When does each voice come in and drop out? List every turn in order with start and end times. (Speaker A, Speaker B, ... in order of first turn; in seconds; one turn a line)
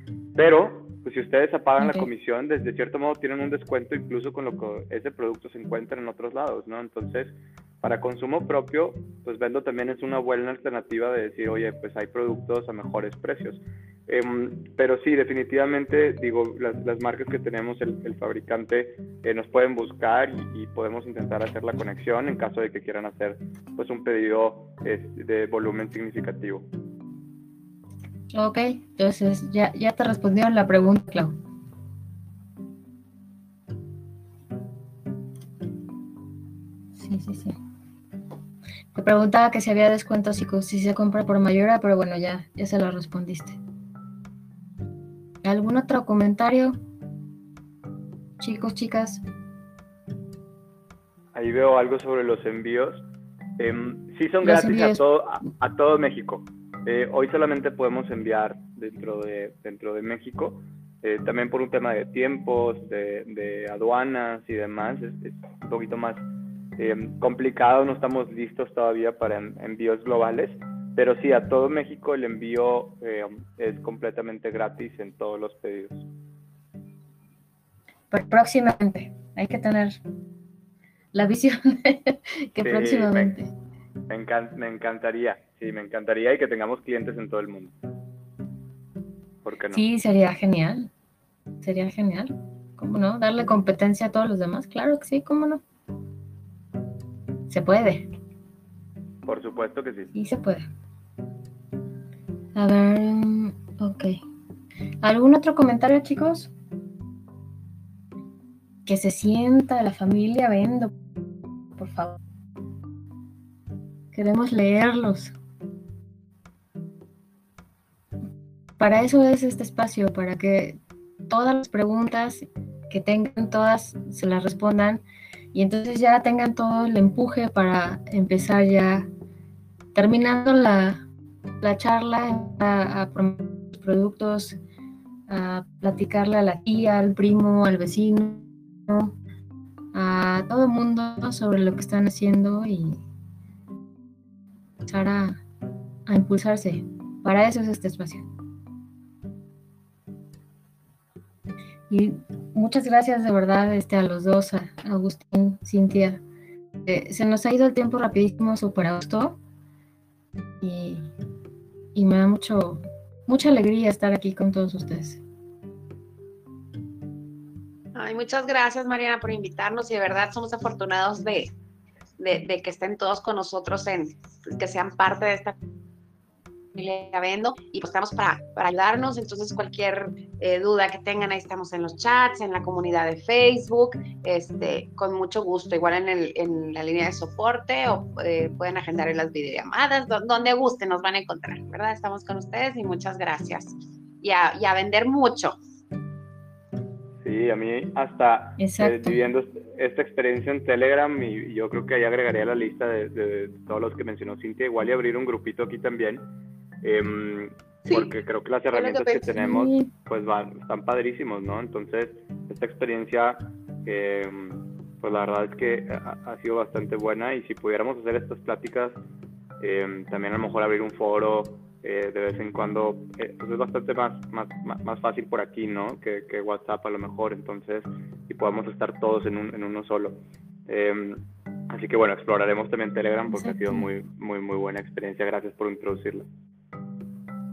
Speaker A: 0.3-26.6
Speaker B: 1.8-2.1
Speaker B: 28.3-31.3
Speaker B: 37.0-37.6
Speaker B: 38.9-43.6
Speaker B: 45.4-46.8
Speaker B: 48.4-49.2
Speaker A: 51.3-53.0
Speaker A: 53.6-66.2
Speaker B: 54.4-55.0
Speaker A: 66.8-76.1
Speaker B: 78.1-80.0
Speaker B: 81.1-83.5
Speaker A: 82.6-83.3
Speaker A: 84.1-87.7
Speaker A: 89.4-89.8
Speaker B: 89.7-90.9
Speaker B: 91.6-95.6
Speaker B: 97.5-98.1
Speaker A: 99.2-100.1
Speaker B: 100.1-100.7
Speaker B: 102.5-104.2
Speaker B: 105.0-106.5
Speaker B: 108.8-110.9
Speaker B: 111.8-112.2
Speaker B: 114.1-115.3
Speaker B: 118.8-125.0
Speaker B: 125.5-129.1
Speaker B: 129.9-131.1
Speaker B: 131.6-134.6
Speaker B: 135.3-139.1
Speaker B: 139.9-143.0
Speaker B: 144.8-145.4
Speaker B: 146.1-148.3
Speaker B: 151.9-156.2
Speaker B: 156.8-159.4
Speaker B: 160.6-161.1
Speaker B: 161.9-165.2
Speaker C: 167.9-171.5
Speaker C: 172.2-175.6
Speaker C: 176.7-195.6
Speaker A: 197.2-206.2
Speaker B: 198.6-199.2
Speaker A: 206.8-219.0
Speaker C: 208.7-209.3
Speaker B: 209.3-209.9
Speaker A: 219.6-236.2
Speaker B: 233.3-233.9